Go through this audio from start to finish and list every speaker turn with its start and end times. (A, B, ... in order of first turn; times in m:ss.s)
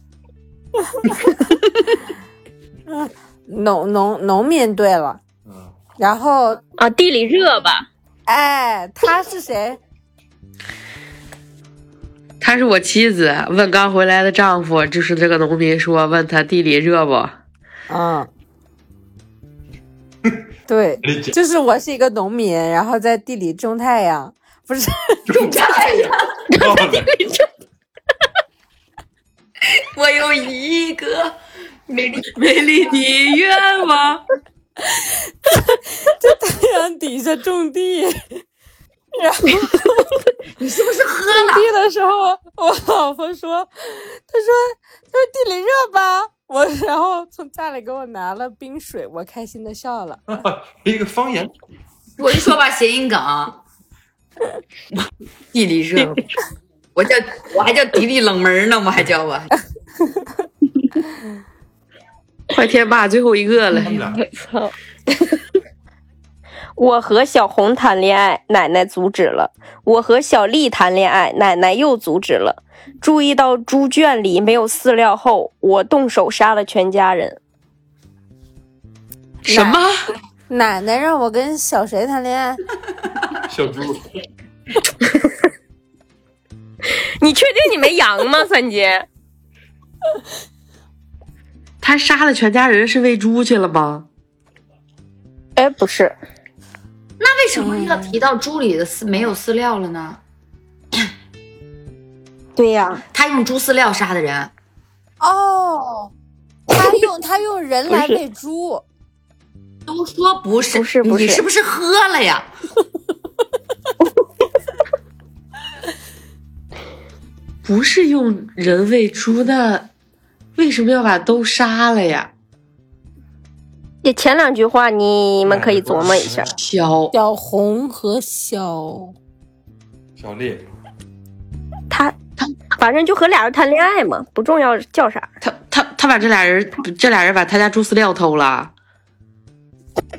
0:02.9-0:05.2 A
0:05.5-0:05.7 B
0:06.0-0:06.6 A
0:06.8-0:07.9 C
0:08.3-0:09.8 A
0:12.4-0:17.4 D
0:17.9-0:18.3 A
0:20.7-0:25.3 A
0:21.0-0:21.4 B
0:25.3-0:25.6 B
0:25.3-0:26.4 E
0:26.6-0:27.1 B
0:29.6-0:31.4 E
0:31.9-0:34.2 E
0:32.4-0:34.1 D
0:35.0-0:38.4 A
0:39.2-0:40.2 A
0:40.6-0:41.7 E
0:41.3-0:50.2 A
0:50.3-0:51.5 B
0:52.2-0:53.6 E
0:54.9-0:56.3 E
0:57.0-0:59.5 E
1:02.5-1:04.0 D
1:03.8-1:04.3 B
1:04.1-1:05.4 C
1:06.8-1:17.4 C
1:19.4-1:20.1 D
1:19.5-1:19.8 A
1:20.5-1:22.6 A
1:23.5-1:24.0 B
1:27.2-1:29.1 C
1:31.8-1:34.1 D
1:35.6-1:36.2 C
1:37.2-1:40.2 E
1:37.6-1:38.2 A
1:42.6-1:43.0 C
1:43.1-1:44.5 E
1:45.2-1:46.1 A
1:46.7-1:48.8 A
1:47.9-1:48.2 C
1:49.9-1:52.5 E
1:50.7-1:51.4 C
1:57.6-1:59.9 D
2:00.6-2:02.3 D
2:04.0-2:06.5 C
2:05.4-2:06.5 B
2:06.6-2:07.1 D
2:07.1-2:09.2 A
2:10.2-2:10.7 B
2:11.9-2:12.2 C
2:12.8-2:15.3 C
2:15.4-2:18.7 D